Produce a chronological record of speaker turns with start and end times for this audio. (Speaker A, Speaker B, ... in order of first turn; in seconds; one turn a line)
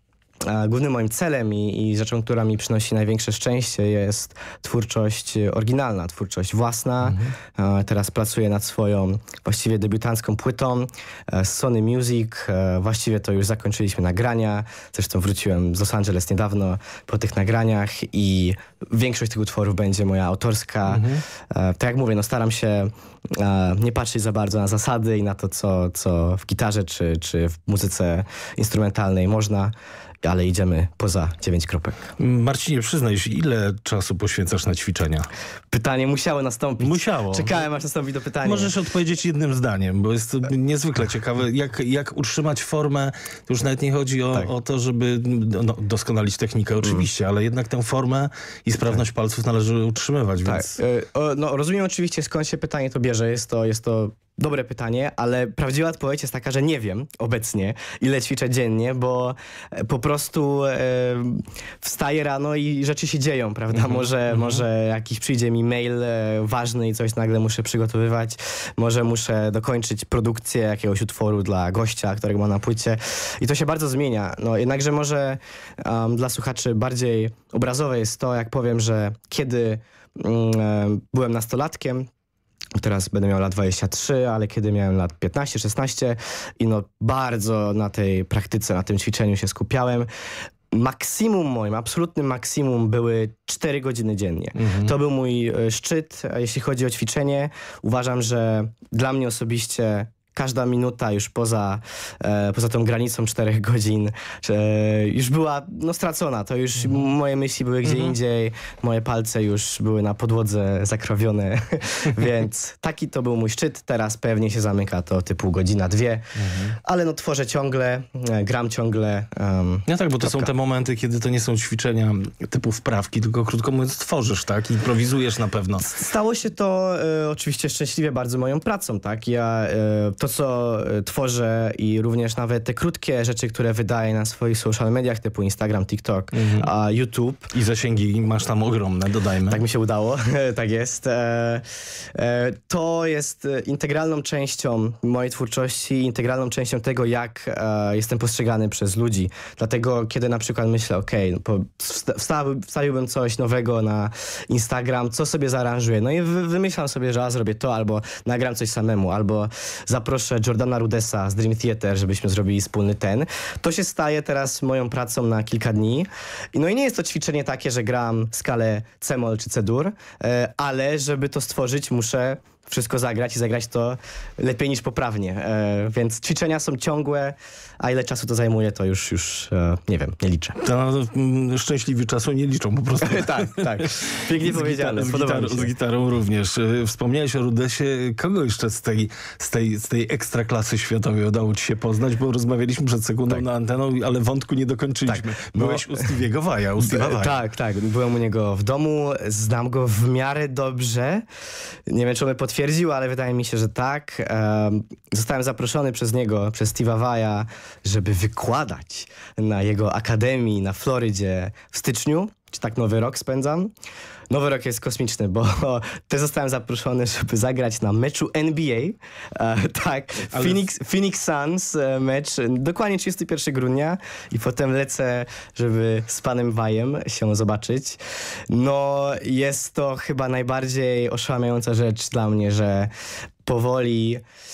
Speaker A: 0.4-32.1
Speaker B: 7.0-7.3
Speaker B: 20.9-21.2
Speaker B: 32.2-35.3
Speaker A: 35.7-38.7
Speaker B: 36.8-37.6
Speaker B: 38.4-50.8
Speaker A: 50.5-82.1
Speaker B: 63.7-64.6
Speaker A: 82.8-90.1
Speaker A: 90.7-116.3
Speaker B: 94.6-94.9
Speaker B: 107.8-108.1
Speaker B: 116.4-116.8
Speaker A: 116.8-120.5
Speaker B: 119.9-125.9
Speaker A: 125.8-137.5
Speaker B: 136.3-136.7
Speaker B: 137.5-139.6
Speaker A: 139.5-180.6
Speaker B: 180.6-197.4
Speaker A: 183.0-185.7
Speaker A: 195.1-196.2
Speaker A: 196.8-201.2
Speaker A: 201.9-213.7
Speaker A: 214.3-228.0
Speaker B: 220.3-220.6
Speaker A: 228.5-232.9
Speaker A: 233.4-234.2